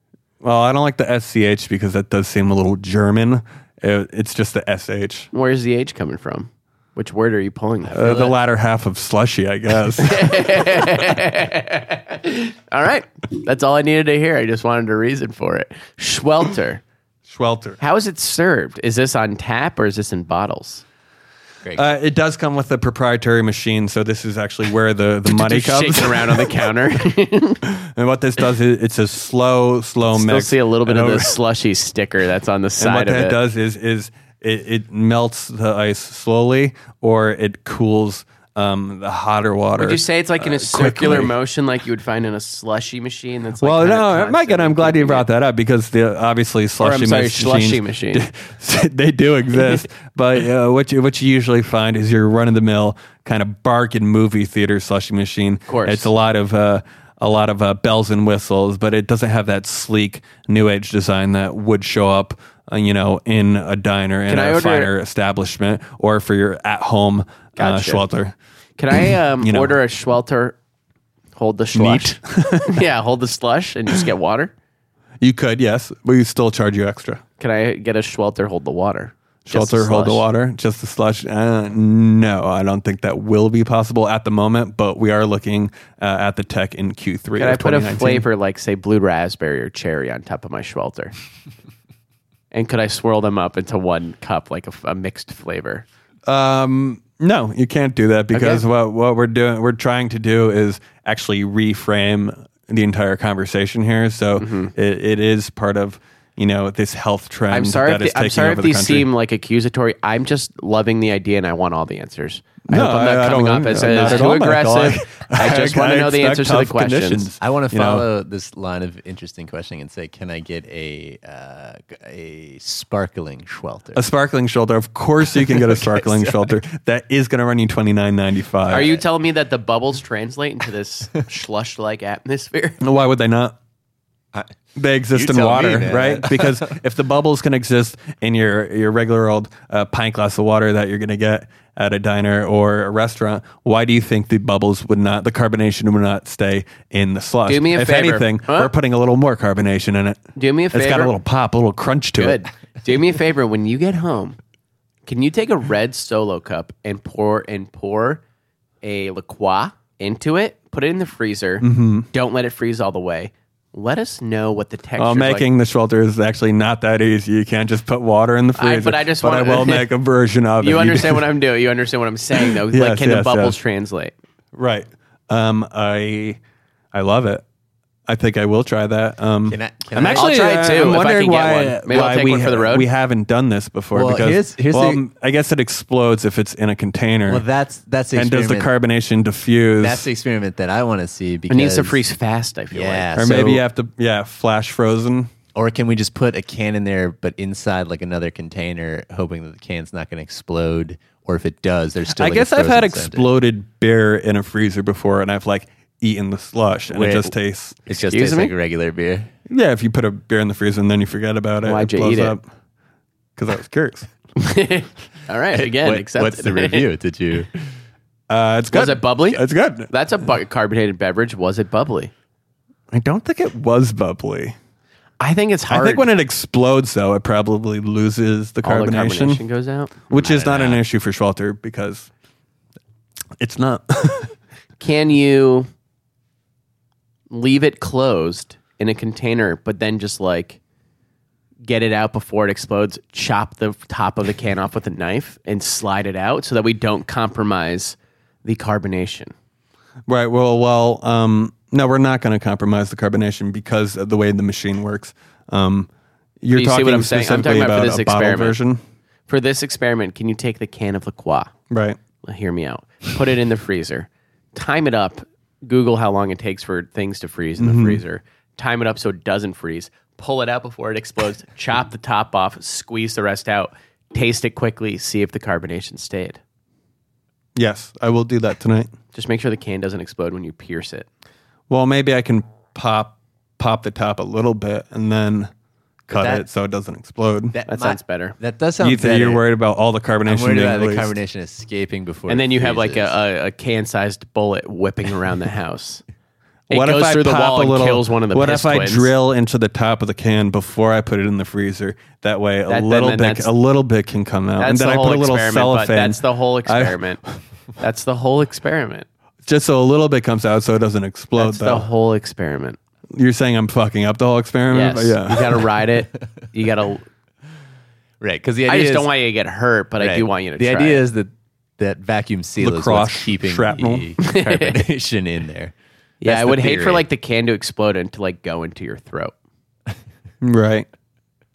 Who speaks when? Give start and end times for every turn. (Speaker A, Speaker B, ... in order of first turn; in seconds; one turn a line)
Speaker A: 0.4-5.3
Speaker B: 5.3-8.3
Speaker A: 7.9-10.8
Speaker B: 10.0-16.8
Speaker A: 17.3-17.8
Speaker B: 17.8-20.8
Speaker A: 21.7-26.6
Speaker B: 25.3-27.6
Speaker A: 27.7-31.4
Speaker B: 30.1-33.4
Speaker A: 32.8-41.3
Speaker B: 39.8-45.2
Speaker A: 43.6-68.3
Speaker B: 46.8-48.3
Speaker B: 55.7-56.1
Speaker B: 64.3-64.9
Speaker B: 67.6-68.1
Speaker B: 68.8-70.6
Speaker A: 69.0-69.8
Speaker B: 71.4-74.5
Speaker A: 71.7-72.7
Speaker A: 75.2-77.2
Speaker B: 77.4-80.2
Speaker A: 79.5-88.3
Speaker B: 87.4-91.1
Speaker B: 92.5-95.8
Speaker A: 96.3-109.1
Speaker B: 98.3-98.6
Speaker B: 104.4-104.7
Speaker B: 107.5-117.3
Speaker A: 112.7-118.1
Speaker C: 117.4-124.0
Speaker A: 124.0-129.0
Speaker C: 125.3-126.4
Speaker B: 128.7-132.8
Speaker A: 132.8-133.6
Speaker A: 134.8-152.4
Speaker C: 135.1-136.7
Speaker B: 147.5-148.7
Speaker B: 150.4-151.1
Speaker B: 152.2-154.4
Speaker B: 155.1-158.2
Speaker B: 158.8-165.5
Speaker A: 161.6-162.1
Speaker A: 165.0-171.3
Speaker B: 168.6-169.9
Speaker B: 170.6-174.1
Speaker A: 172.7-173.6
Speaker A: 174.5-176.4
Speaker A: 176.9-177.4
Speaker A: 178.1-187.4
Speaker C: 179.5-180.9
Speaker B: 180.1-182.9
Speaker C: 183.9-185.0
Speaker C: 187.3-188.7
Speaker A: 188.1-190.1
Speaker C: 189.8-192.0
Speaker B: 191.5-193.1
Speaker C: 192.7-193.6
Speaker A: 193.2-195.3
Speaker C: 195.6-203.3
Speaker A: 202.1-207.8
Speaker C: 206.9-207.3
Speaker C: 207.9-209.3
Speaker B: 207.9-208.5
Speaker A: 209.5-212.4
Speaker B: 211.6-212.4
Speaker A: 213.4-214.1
Speaker B: 214.4-216.8
Speaker C: 215.5-217.5
Speaker A: 218.3-219.9
Speaker B: 218.7-222.1
Speaker A: 222.9-224.6
Speaker B: 225.2-226.1
Speaker A: 225.7-229.4
Speaker B: 228.6-230.0
Speaker A: 230.1-232.1
Speaker C: 230.1-230.8
Speaker A: 233.4-234.3
Speaker B: 234.8-235.7
Speaker B: 237.3-240.6
Speaker B: 241.6-249.3
Speaker A: 250.1-255.9
Speaker A: 256.4-258.8
Speaker B: 256.5-258.6
Speaker B: 259.3-261.5
Speaker A: 261.7-262.0
Speaker B: 262.2-276.4
Speaker A: 267.6-268.0
Speaker A: 277.6-278.9
Speaker B: 279.1-281.1
Speaker A: 281.7-285.5
Speaker A: 286.1-287.6
Speaker C: 286.1-286.4
Speaker C: 287.5-289.4
Speaker B: 287.7-288.4
Speaker A: 288.8-291.1
Speaker C: 290.3-293.1
Speaker B: 292.3-296.0
Speaker B: 296.7-299.1
Speaker A: 296.7-307.0
Speaker B: 302.7-303.5
Speaker B: 304.6-307.2
Speaker B: 307.8-309.1
Speaker A: 309.5-311.9
Speaker B: 311.4-312.8
Speaker A: 313.1-315.7
Speaker B: 314.7-317.1
Speaker C: 318.2-319.1
Speaker B: 318.7-321.0
Speaker C: 320.0-327.1
Speaker A: 322.6-324.1
Speaker B: 324.2-324.8
Speaker B: 326.2-329.3
Speaker A: 330.4-330.9